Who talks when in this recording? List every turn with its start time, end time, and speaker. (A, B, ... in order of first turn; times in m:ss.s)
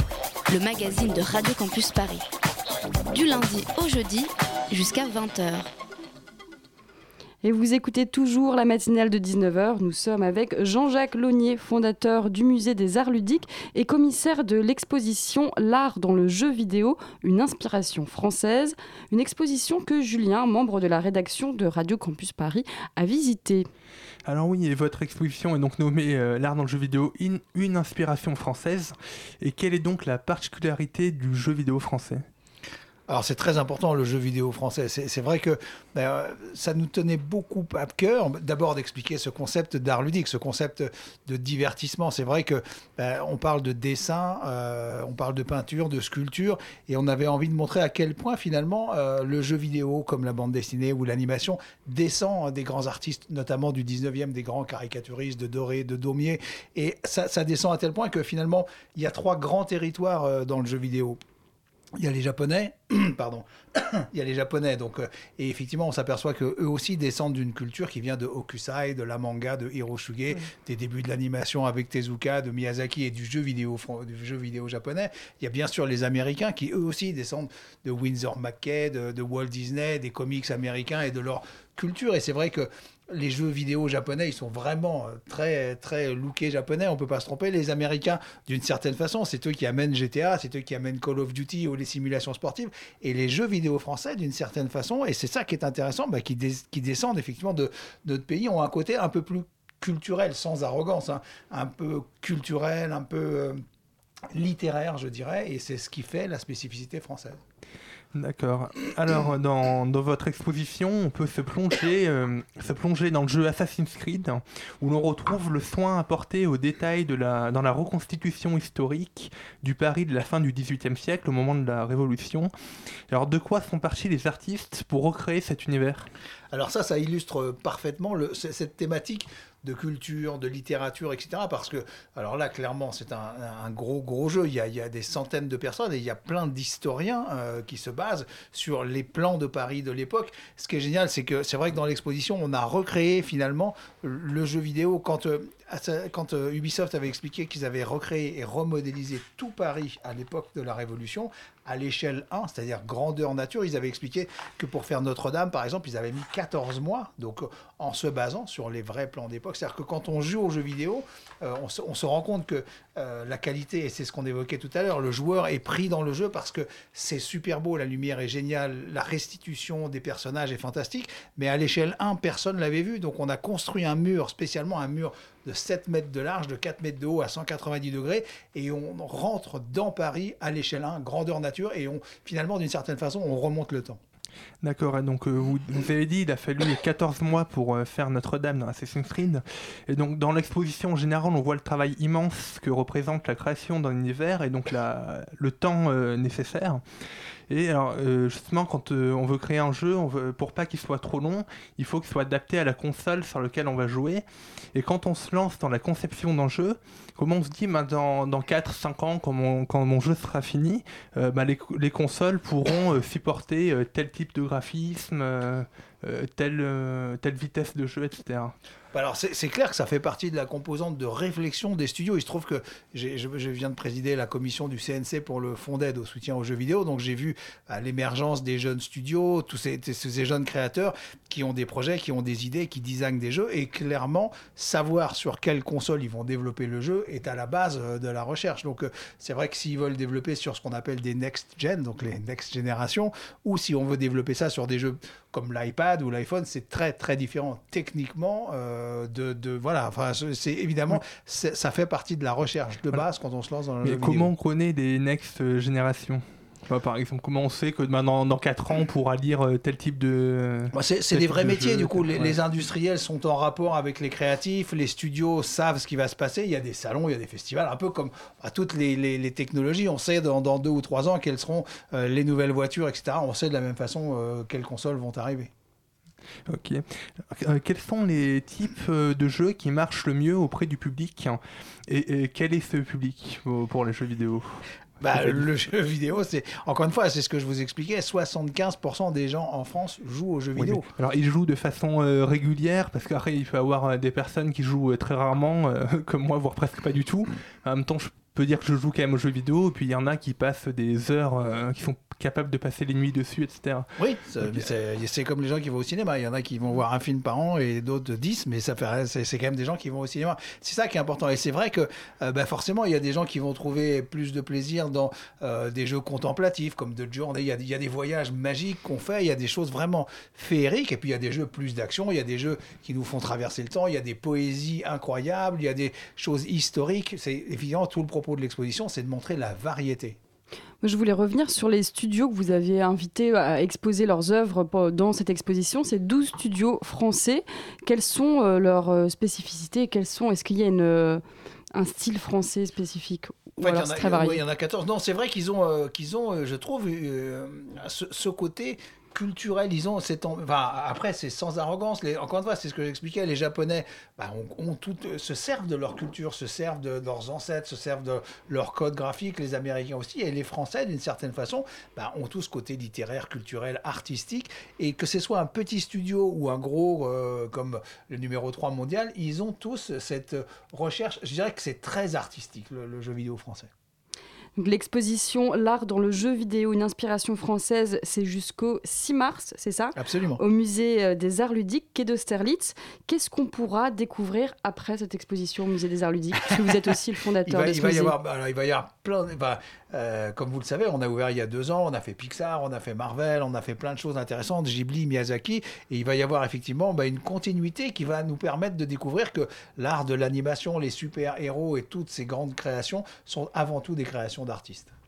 0:00.5-0:02.3 A
0:03.1-0:05.7 A
0:07.4-0:23.7 B
0:24.3-0:32.2 C
0:33.1-1:01.2 D
1:02.0-1:43.6 D
1:44.3-1:47.4 D
1:48.1-2:02.5 C
2:03.1-2:06.1 C
2:06.5-3:04.0 D
3:04.6-3:16.8 C
3:17.5-3:38.5 C
3:38.9-4:14.3 D
4:13.8-4:22.4 C
4:20.7-4:35.5 D
4:36.5-4:44.5 C
4:45.0-4:50.9 D
4:45.1-4:45.4 C
4:50.6-5:03.9 C
5:04.0-5:30.2 D
5:30.8-5:41.2 B
5:41.7-5:44.4 B
5:43.6-6:13.7 D
6:14.6-6:28.1 B
6:20.0-6:20.4 D
6:27.4-6:44.9 D